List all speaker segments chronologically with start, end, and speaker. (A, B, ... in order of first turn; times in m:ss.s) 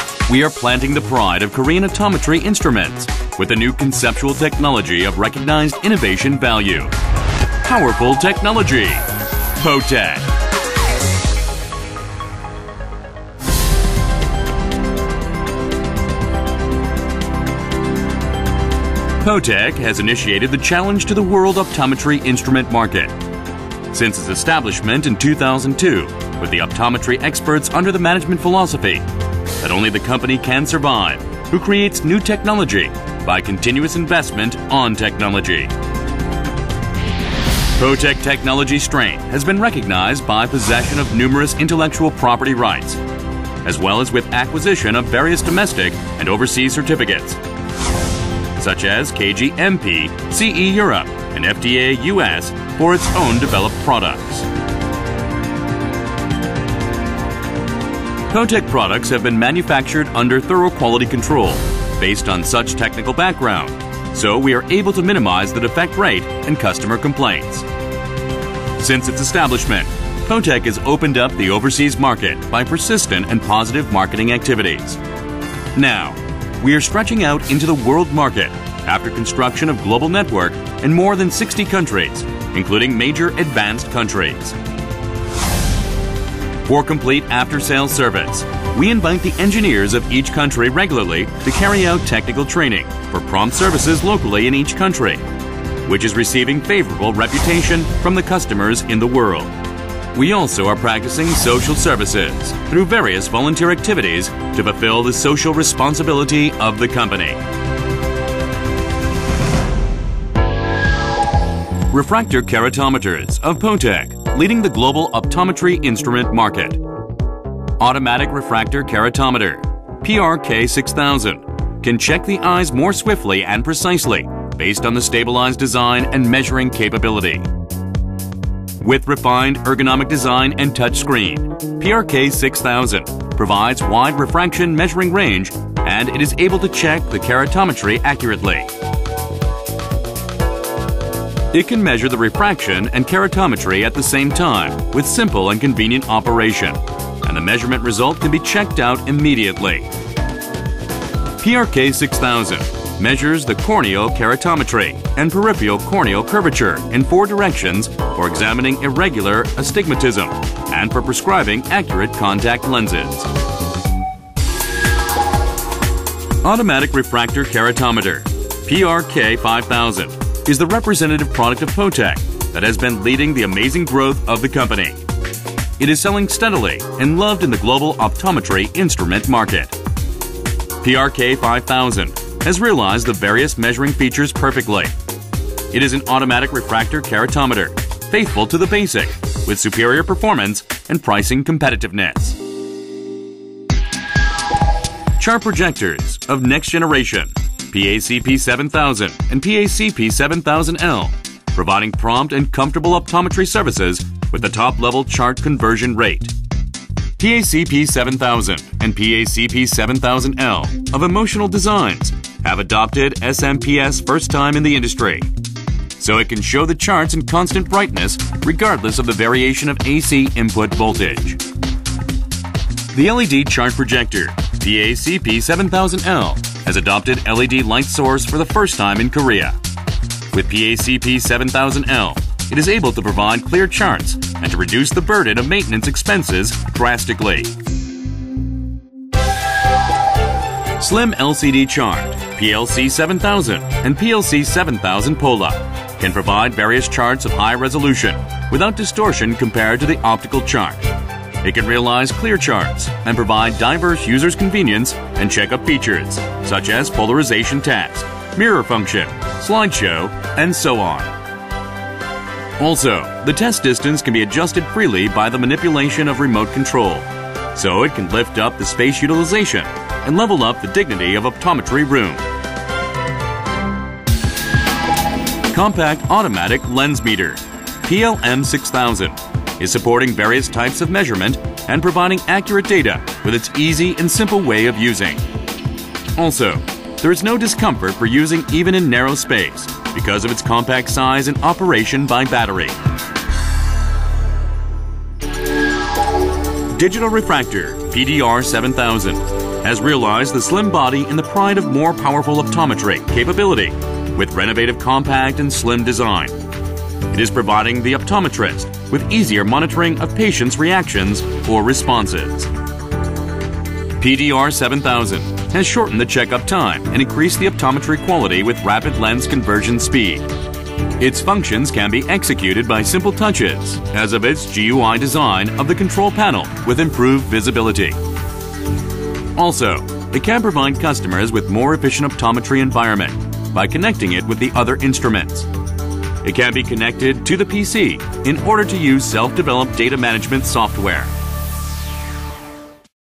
0:00.3-0:06.9 A
0:07.6-0:09.1 A
0:09.6-0:10.3 A
0:19.2-0:23.1 A
0:23.9-0:29.1 A
0:29.6-0:35.7 A
0:37.8-0:43.0 A
0:43.6-0:47.4 A
0:48.6-0:54.5 A
0:58.3-1:07.7 A
1:08.8-1:15.0 A
1:15.8-1:24.6 A
1:26.6-1:35.2 A
1:35.8-1:39.5 A
1:40.1-1:47.4 A
1:51.9-1:56.8 A
1:57.8-2:07.5 A
2:08.8-2:18.7 A
2:21.5-2:29.9 A
2:31.4-2:43.3 A
2:46.4-2:55.0 A
2:55.8-2:59.8 A
3:00.8-3:04.9 A
3:05.7-3:12.4 A
3:15.2-3:26.3 A
3:27.2-3:35.3 A
3:36.0-3:41.4 A
3:42.9-3:49.6 A
3:50.3-3:57.5 A
4:00.8-4:10.8 A
4:11.4-4:21.1 A
4:22.6-4:32.2 A
4:35.5-4:45.2 A
4:46.2-4:52.8 A
4:56.7-5:06.4 A
5:07.1-5:12.5 A
5:14.0-5:20.3 A
5:21.0-5:28.0 A
5:29.4-5:35.5 A
5:36.2-5:41.1 A